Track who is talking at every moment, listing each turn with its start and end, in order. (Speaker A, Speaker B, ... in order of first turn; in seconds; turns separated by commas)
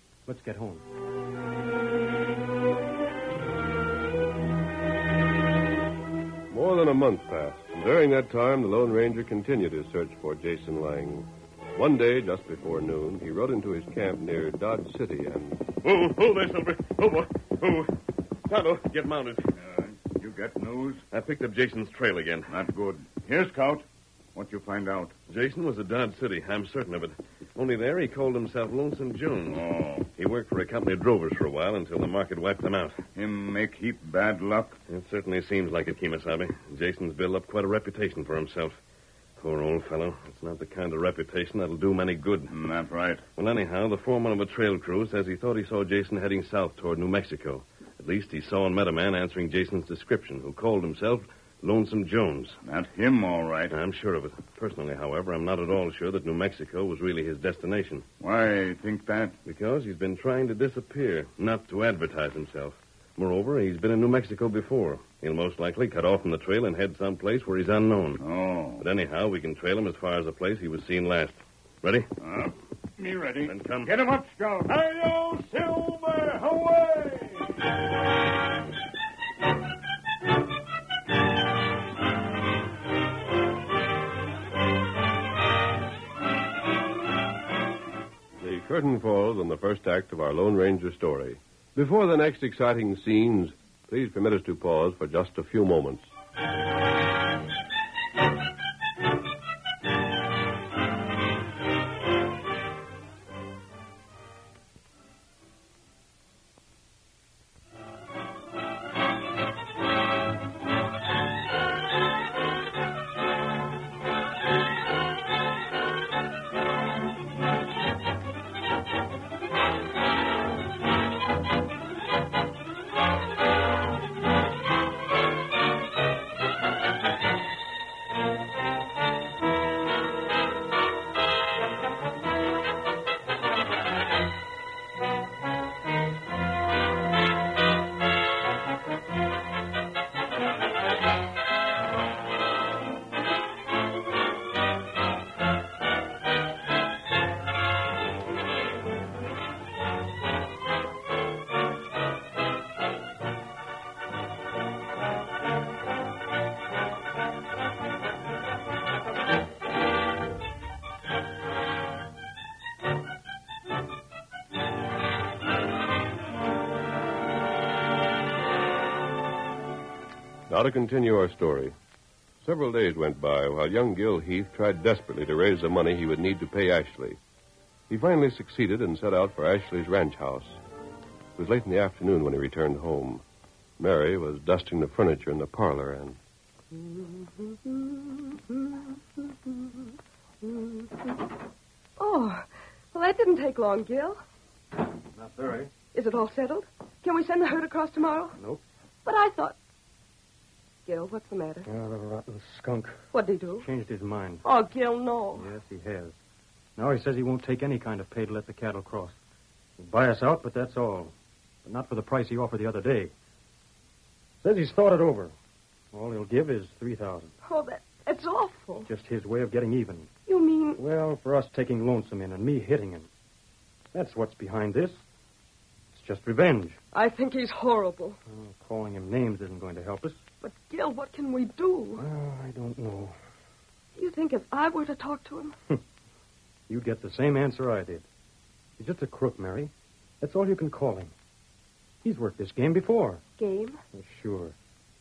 Speaker A: 0.2-0.8, Speaker B: 6.5-15.7, Speaker C: 15.8-17.9, Speaker C: 18.5-19.5, Speaker D: 19.5-21.0, Speaker C: 21.1-22.5, Speaker D: 22.5-25.1, Speaker C: 25.3-29.6, Speaker D: 29.5-30.1, Speaker C: 30.1-33.0, Speaker D: 33.1-34.8, Speaker C: 34.9-38.8, Speaker C: 39.4-42.5, Speaker D: 42.5-43.2, Speaker C: 43.4-52.6, Speaker D: 52.6-53.8, Speaker C: 53.7-58.0, Speaker D: 58.2-59.4, Speaker C: 59.4-68.2, Speaker D: 68.2-68.9, Speaker C: 68.8-72.1, Speaker D: 72.2-77.6, Speaker C: 73.5-73.9, Speaker B: 88.4-96.0, Speaker B: 170.5-171.8, Speaker B: 172.4-177.2, Speaker B: 177.9-180.6, Speaker B: 181.4-183.2, Speaker B: 183.8-186.2, Speaker E: 186.7-189.5, Speaker E: 190.4-191.2, Speaker E: 192.0-194.2, Speaker A: 195.2-195.7, Speaker E: 195.9-198.4, Speaker A: 198.4-198.6, Speaker E: 199.0-199.6, Speaker E: 200.9-201.7, Speaker A: 201.7-203.0, Speaker E: 203.1-203.7, Speaker A: 203.6-204.4, Speaker E: 204.4-205.5, Speaker A: 205.3-206.1, Speaker A: 206.8-209.2, Speaker A: 209.8-211.1, Speaker A: 211.6-213.1, Speaker A: 214.4-215.3, Speaker A: 215.9-217.3, Speaker E: 217.4-218.9, Speaker A: 218.9-220.1, Speaker E: 220.3-220.8, Speaker A: 220.8-223.1, Speaker A: 223.9-225.0, Speaker A: 225.9-226.8, Speaker E: 226.9-228.2, Speaker A: 228.3-230.2, Speaker E: 230.4-232.0, Speaker A: 232.0-233.1, Speaker E: 233.9-235.5, Speaker A: 236.7-238.0, Speaker A: 238.8-241.1, Speaker A: 242.0-243.2, Speaker E: 243.4-243.8, Speaker A: 243.9-244.5